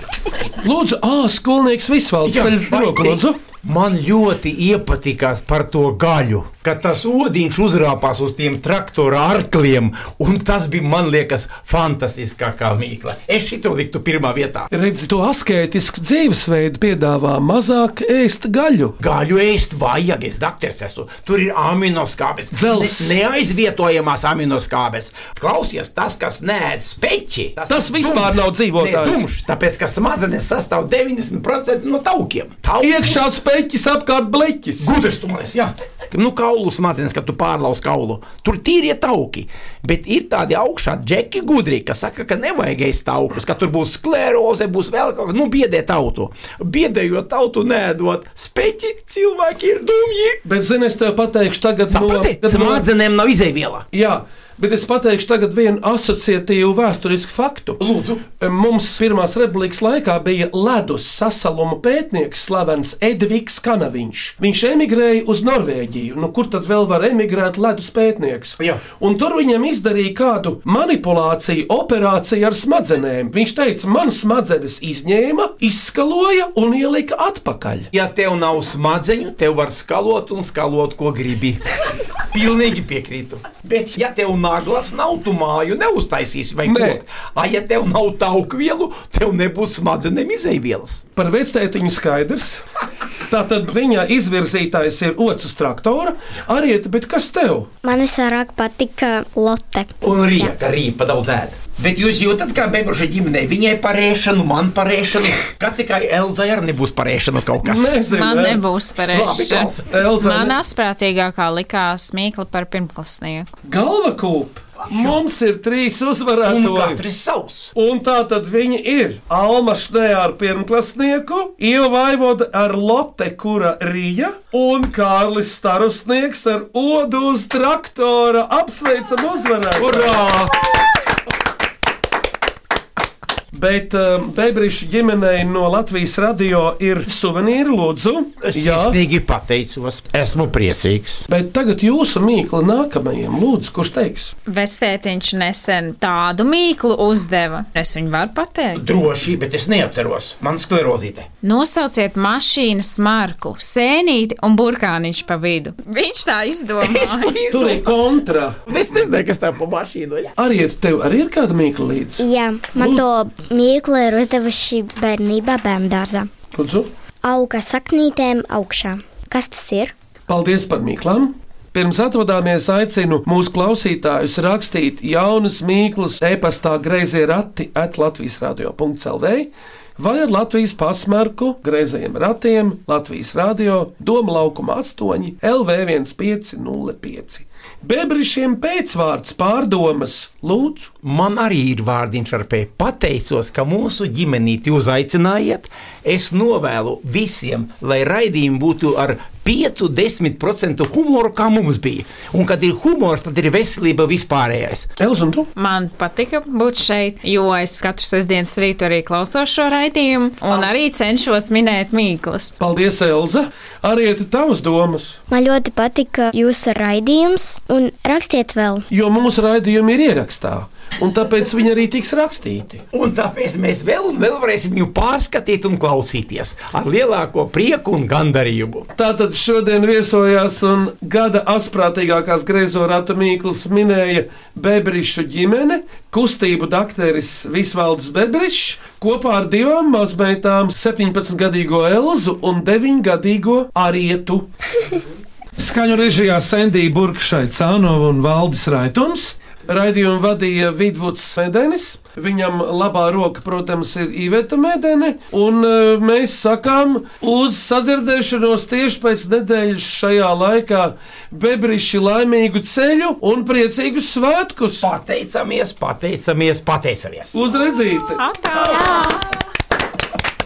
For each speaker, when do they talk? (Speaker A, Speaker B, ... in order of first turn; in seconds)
Speaker A: 0.6-3.4, 14.7-18.9, 22.5-23.2, 27.7-29.2, 32.8-34.9, 50.4-52.9, 53.9-77.9, 86.6-87.0, 91.2-92.6, 93.3-97.7, 107.6-108.6, 109.9-110.5, 113.7-117.0, 117.7-130.5, 133.5-139.0, 141.3-144.3, 157.5-158.6, 160.4-162.2, 162.8-163.0, 166.5-166.9, 170.3-190.9, 205.0-205.5, 212.6-215.2, 218.9-222.8, 228.9-244.5, 245.6-264.9, 267.3-268.2
Speaker B: 2.2-14.7, 19.0-33.2, 34.8-50.4, 51.9-53.9, 57.8-58.2, 77.9-81.6, 82.3-91.0, 100.0-108.0, 109.1-109.9, 114.8-115.2, 116.5-117.7, 129.8-130.5, 138.4-141.2, 148.7-151.3, 156.8-158.0, 158.7-160.3, 191.0-204.9, 222.9-228.9, 264.8-267.3, 268.5-269.1
Speaker C: 97.8-99.9, 162.2-166.3, 167.2-169.9, 215.3-218.8
Speaker D: 108.0-113.5, 144.4-148.8, 151.4-157.3, 205.6-212.6, 268.2-269.3